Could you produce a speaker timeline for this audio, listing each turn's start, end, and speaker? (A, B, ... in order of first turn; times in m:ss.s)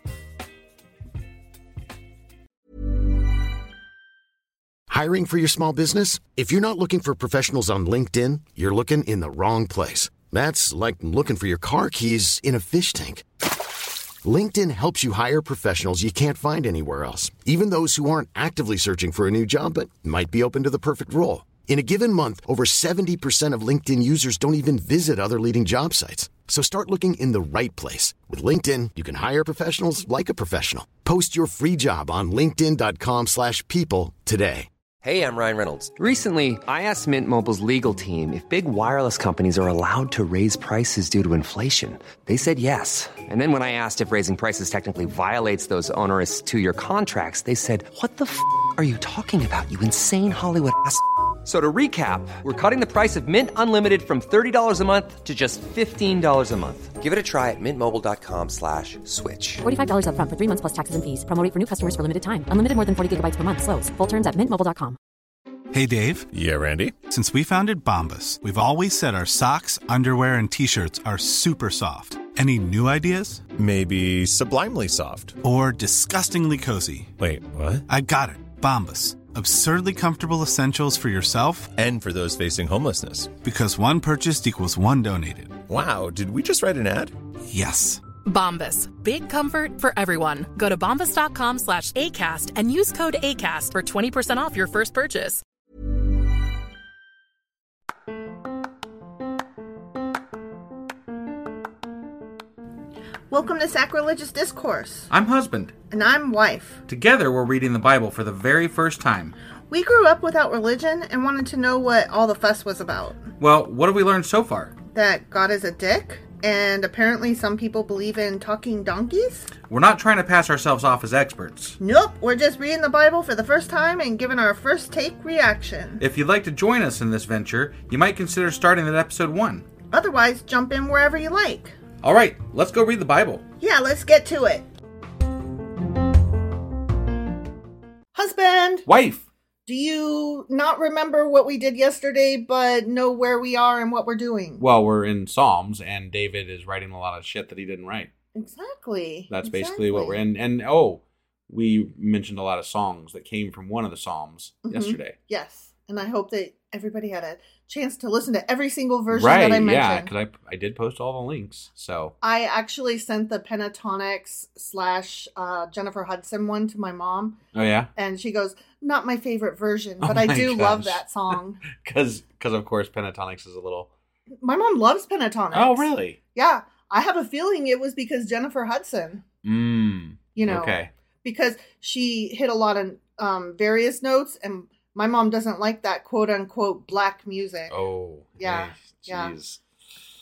0:04.9-0:13.2 A
0:14.2-0:34.7 A
0:35.0-0:59.6 B
0:59.6-1:05.0 C
1:05.7-1:06.3 D
1:06.3-1:07.0 E
1:07.0-1:13.5 D
1:13.6-1:15.4 E
1:15.4-1:17.1 D
1:17.2-1:17.8 E
1:17.9-1:21.7 D
1:21.7-1:23.3 E
1:23.4-1:25.6 D
1:25.7-1:27.1 E
1:27.5-1:28.0 D
1:28.2-1:35.4 F
1:43.3-1:45.1 G
1:45.1-1:45.7 H
1:45.9-1:46.8 G
1:46.9-1:49.3 H
1:49.7-1:53.2 G
1:53.4-1:54.8 H
1:54.9-1:59.5 G
1:59.7-2:01.8 H
2:01.8-2:06.0 G
2:06.0-2:09.7 H
2:09.9-2:11.8 G
2:12.0-2:13.4 H
2:13.6-2:14.6 G
2:18.1-2:18.8 G
2:18.8-2:19.3 H
2:19.6-2:24.6 G
2:24.6-2:28.1 H
2:28.3-2:30.2 G
2:29.3-2:35.2 H
2:34.6-2:40.1 G
2:39.1-2:42.1 H
2:42.2-2:47.4 G
2:47.5-2:47.9 H
2:48.0-2:51.6 G
2:50.0-2:53.9 H
2:54.4-2:59.2 G
2:55.5-2:56.2 H
2:59.4-3:00.9 H
3:00.3-3:07.7 G
3:07.7-3:09.6 H
3:08.4-3:09.3 G